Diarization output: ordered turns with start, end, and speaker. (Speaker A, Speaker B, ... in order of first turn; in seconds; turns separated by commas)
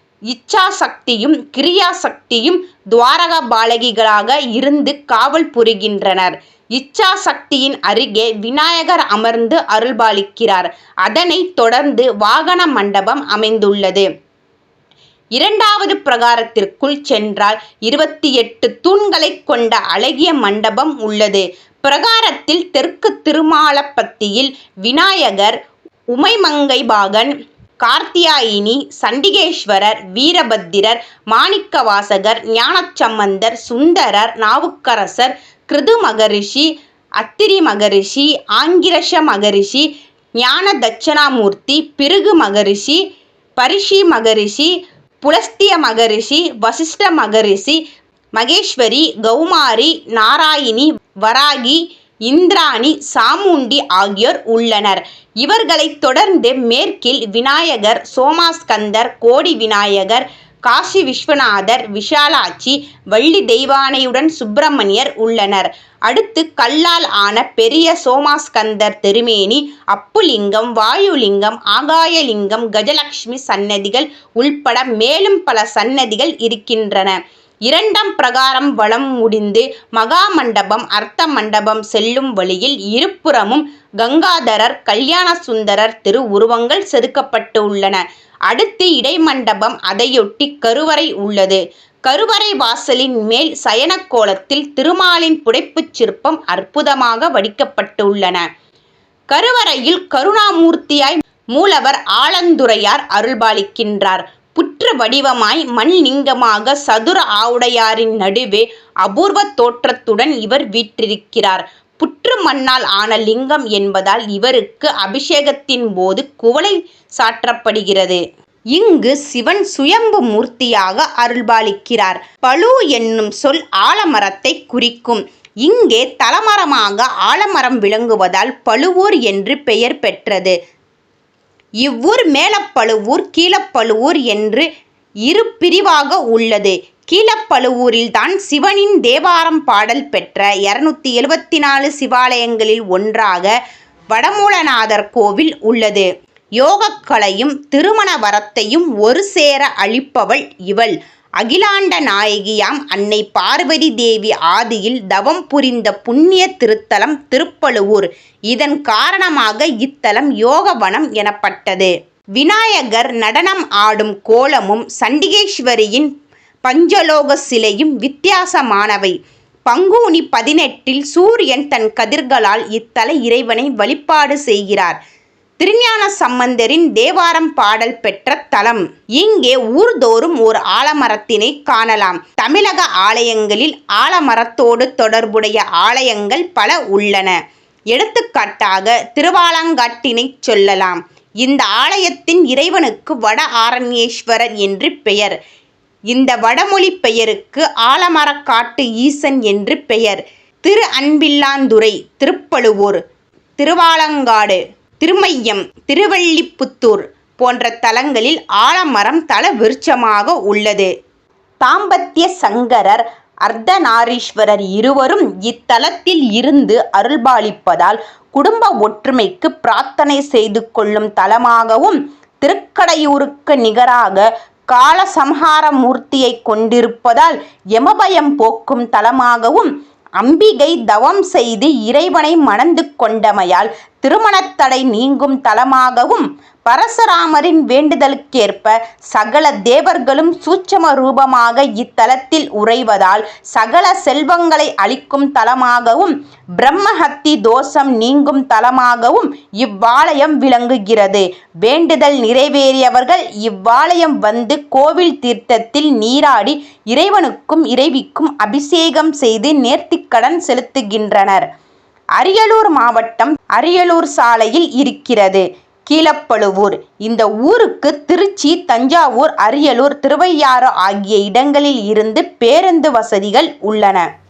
Speaker A: 0.3-14.1, Speaker A: 15.4-25.5, Speaker A: 26.1-36.7, Speaker A: 37.2-39.9, Speaker A: 40.4-43.0, Speaker A: 43.6-44.7, Speaker A: 45.2-47.8, Speaker A: 48.4-77.2, Speaker A: 77.7-98.4, Speaker A: 99.3-118.2, Speaker A: 118.7-130.5, Speaker A: 131.8-134.7, Speaker A: 135.3-143.5, Speaker A: 144.1-146.1, Speaker A: 146.6-166.1, Speaker A: 166.7-169.1, Speaker A: 169.7-174.9, Speaker A: 175.6-187.3, Speaker A: 187.9-195.3, Speaker A: 196.1-203.0, Speaker A: 203.6-210.9, Speaker A: 211.6-261.4, Speaker A: 262.2-274.1